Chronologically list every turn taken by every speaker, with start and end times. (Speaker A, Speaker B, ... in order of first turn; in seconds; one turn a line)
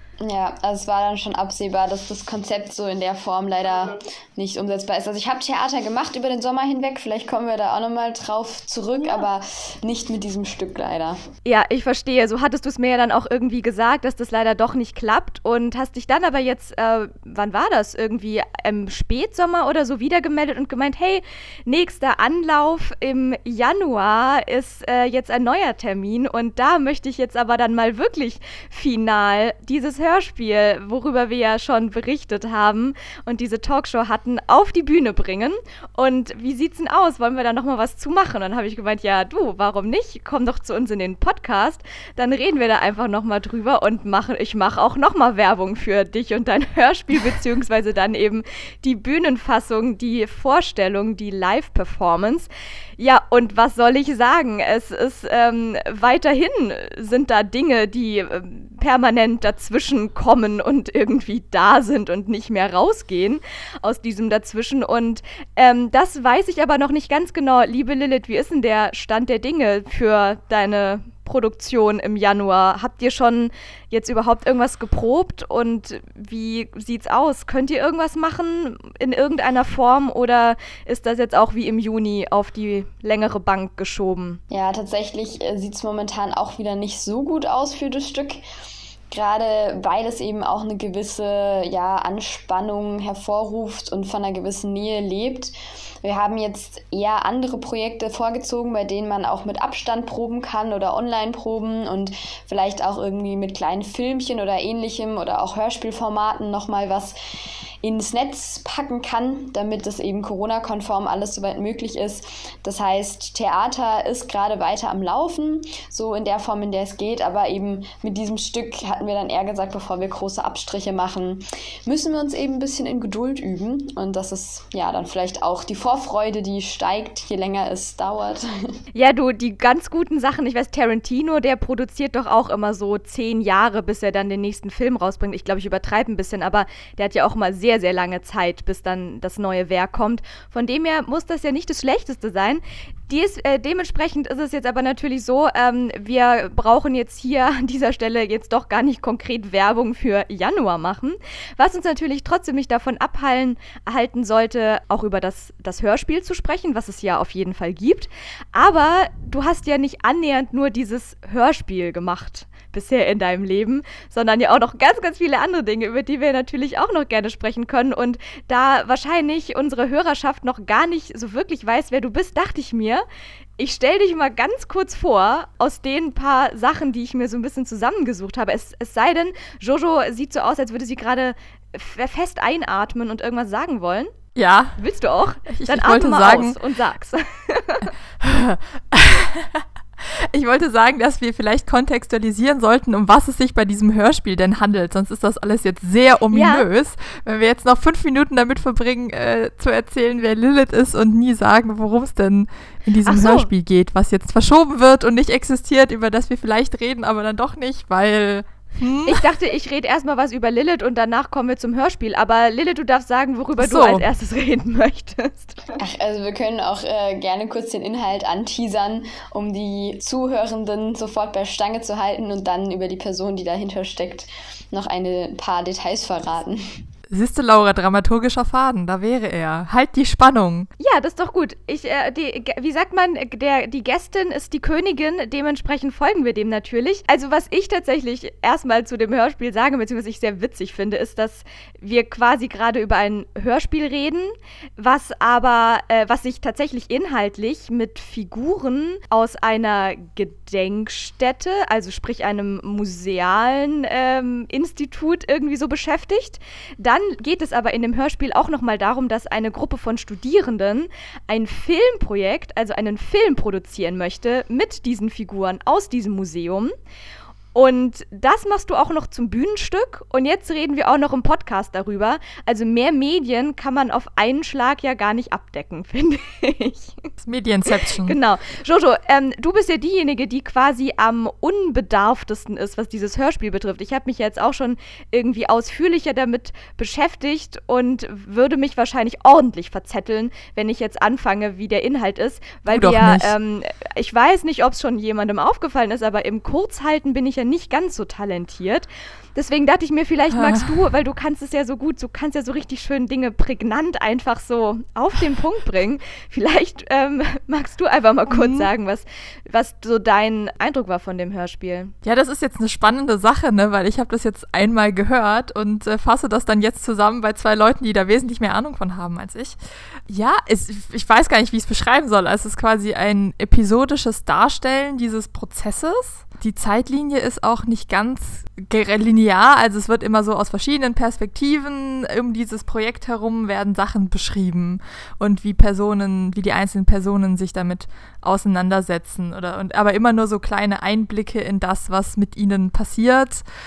Speaker A: 0.2-11.2
Speaker B: 11.4-84.4
Speaker A: 84.5-88.4
Speaker A: 89.1-107.2
Speaker A: 107.8-128.5
Speaker B: 128.9-173.1
Speaker B: 173.6-184.1
Speaker C: 184.4-184.8
Speaker B: 184.8-187.9
Speaker C: 185.5-186.6
Speaker C: 188.2-209.2
Speaker B: 196.3-196.7
Speaker B: 203.1-203.5
Speaker B: 209.1-215.6
Speaker C: 213.6-214.1
Speaker A: 215.8-226.6
Speaker C: 227.1-230.7
Speaker B: 230.8-266.7
Speaker B: 267.5-276.9
Speaker C: 277.2-278.2
Speaker B: 278.0-311.9
Speaker C: 292.7-293.3
Speaker C: 300.3-300.8
Speaker C: 308.3-308.7
Speaker C: 312.0-319.6
Speaker C: 320.1-343.4